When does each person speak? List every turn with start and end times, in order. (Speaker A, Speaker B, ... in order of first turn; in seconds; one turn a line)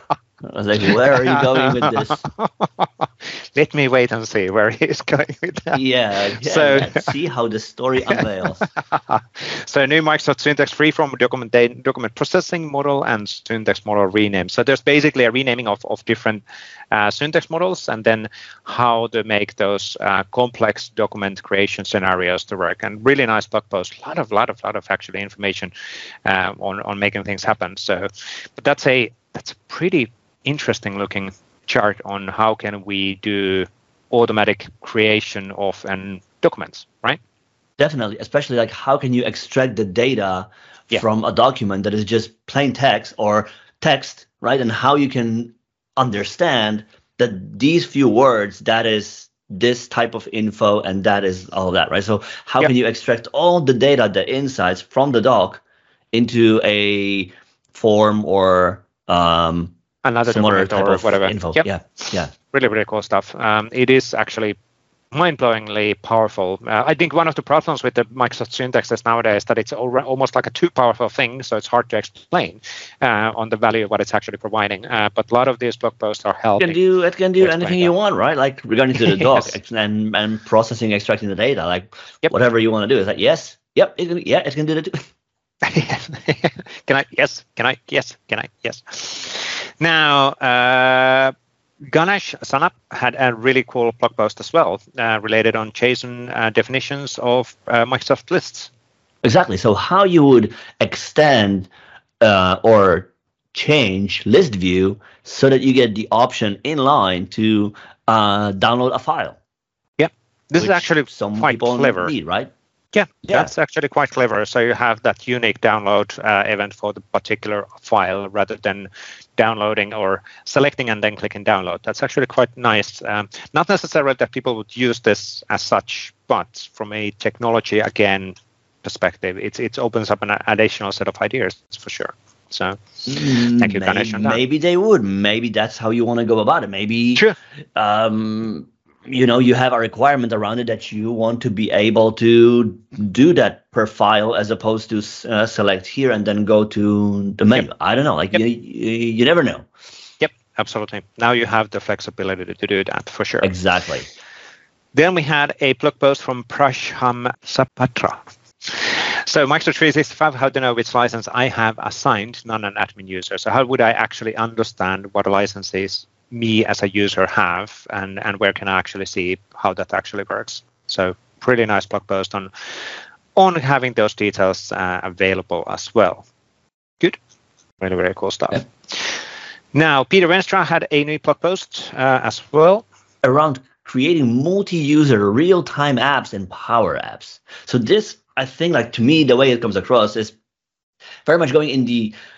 Speaker A: 0.4-2.2
Speaker B: 1.2-5.8
Speaker A: 5.7-8.6
Speaker B: 6.3-7.1
Speaker B: 8.6-25.7
Speaker B: 26.2-37.2
Speaker A: 37.8-55.6
Speaker A: 56.1-59.7
Speaker B: 60.0-64.6
Speaker A: 60.3-62.3
Speaker B: 65.1-76.8
Speaker A: 76.6-85.0
Speaker B: 77.4-77.9
Speaker B: 79.1-79.5
Speaker B: 85.6-91.3
Speaker B: 91.9-98.7
Speaker A: 99.2-101.7
Speaker A: 102.2-109.4
Speaker B: 110.0-112.1
Speaker A: 110.6-112.5
Speaker B: 112.9-132.8
Speaker A: 113.2-113.5
Speaker A: 133.1-137.2
Speaker B: 133.3-134.4
Speaker A: 137.8-149.7
Speaker B: 150.2-153.5
Speaker A: 153.4-154.1
Speaker B: 154.9-172.5
Speaker B: 173.3-176.3
Speaker B: 177.8-179.2
Speaker B: 179.7-182.8
Speaker A: 183.2-190.3
Speaker A: 191.2-192.1